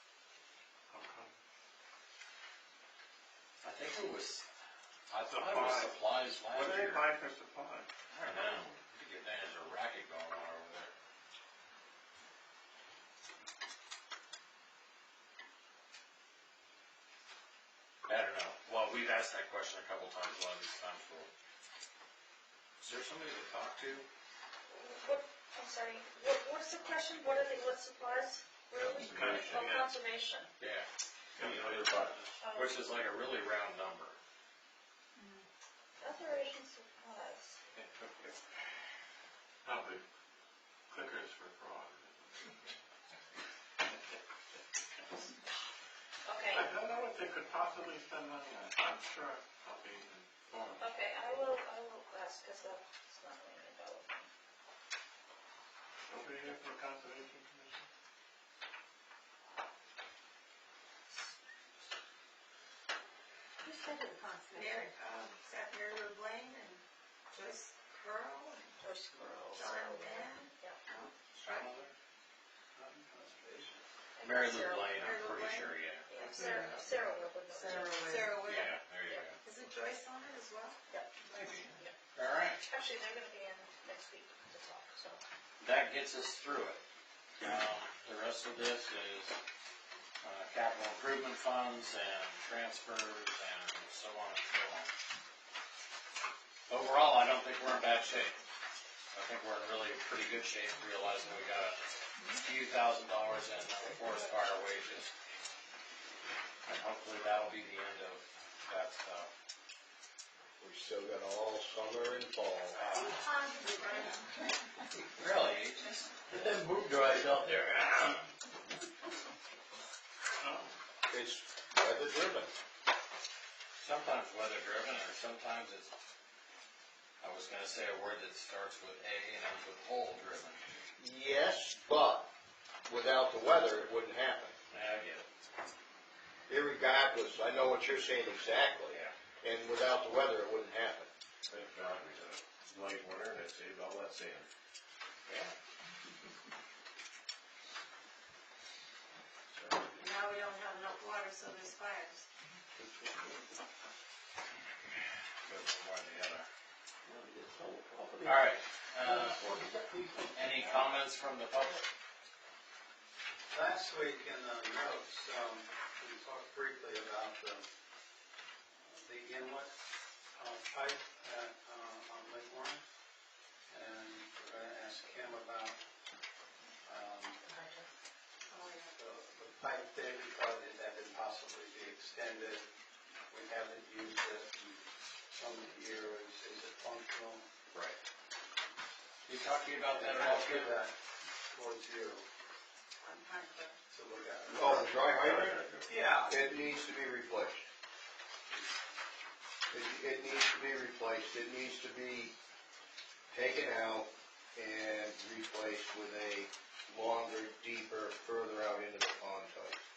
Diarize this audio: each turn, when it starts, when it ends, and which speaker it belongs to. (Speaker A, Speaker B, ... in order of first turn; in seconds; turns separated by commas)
Speaker A: 0.9-1.3, Speaker B: 3.6-4.5, Speaker B: 5.1-7.1, Speaker A: 5.3-6.0, Speaker A: 6.5-7.9, Speaker B: 8.1-10.9, Speaker B: 18.1-21.3, Speaker B: 22.8-24.1, Speaker C: 24.7-30.5, Speaker D: 28.9-29.7, Speaker A: 29.0-29.9, Speaker B: 30.6-30.9, Speaker A: 31.4-31.9, Speaker D: 31.4-32.3, Speaker C: 32.4-32.7, Speaker B: 32.5-34.2, Speaker C: 36.0-37.6, Speaker A: 37.8-38.1, Speaker A: 39.6-40.0, Speaker A: 40.9-42.6, Speaker C: 46.2-46.6, Speaker A: 46.5-50.9, Speaker C: 50.8-54.3, Speaker A: 56.1-57.8, Speaker E: 64.4-68.7, Speaker C: 68.8-70.8, Speaker E: 69.5-71.7, Speaker B: 71.3-71.9, Speaker F: 72.8-73.8, Speaker C: 74.2-74.9, Speaker B: 74.2-76.1, Speaker E: 75.0-75.7, Speaker C: 76.2-78.3, Speaker E: 77.5-78.7, Speaker B: 78.5-79.4, Speaker E: 79.4-80.8, Speaker B: 81.3-82.6, Speaker C: 82.7-85.2, Speaker B: 85.6-86.8, Speaker B: 87.4-89.4, Speaker B: 90.2-94.9, Speaker B: 96.7-98.3, Speaker B: 99.1-101.8, Speaker B: 102.4-105.1, Speaker B: 106.7-109.3, Speaker G: 110.6-112.8, Speaker B: 112.7-113.2, Speaker E: 113.0-114.4, Speaker B: 115.2-118.2, Speaker A: 120.4-120.7, Speaker G: 121.1-122.5, Speaker B: 123.8-125.9, Speaker B: 127.2-130.6, Speaker G: 131.0-132.3, Speaker G: 132.9-134.6, Speaker B: 134.7-135.3, Speaker G: 136.5-141.1, Speaker D: 141.5-144.5, Speaker D: 149.5-150.2, Speaker E: 150.0-152.2, Speaker B: 155.4-156.5, Speaker C: 157.1-158.5, Speaker B: 158.2-159.4, Speaker C: 159.1-160.4, Speaker B: 160.3-161.8, Speaker F: 163.5-167.7, Speaker F: 168.8-169.7, Speaker F: 170.4-172.8, Speaker F: 173.7-175.8, Speaker F: 176.9-177.4, Speaker F: 178.9-182.7, Speaker F: 183.3-187.5, Speaker B: 189.3-190.8, Speaker F: 189.9-190.9, Speaker F: 191.5-192.3, Speaker E: 193.1-193.7, Speaker F: 193.9-194.8, Speaker G: 194.6-195.7, Speaker D: 194.6-195.9, Speaker F: 195.8-196.4, Speaker G: 196.3-197.7, Speaker G: 199.7-202.3, Speaker G: 203.3-209.8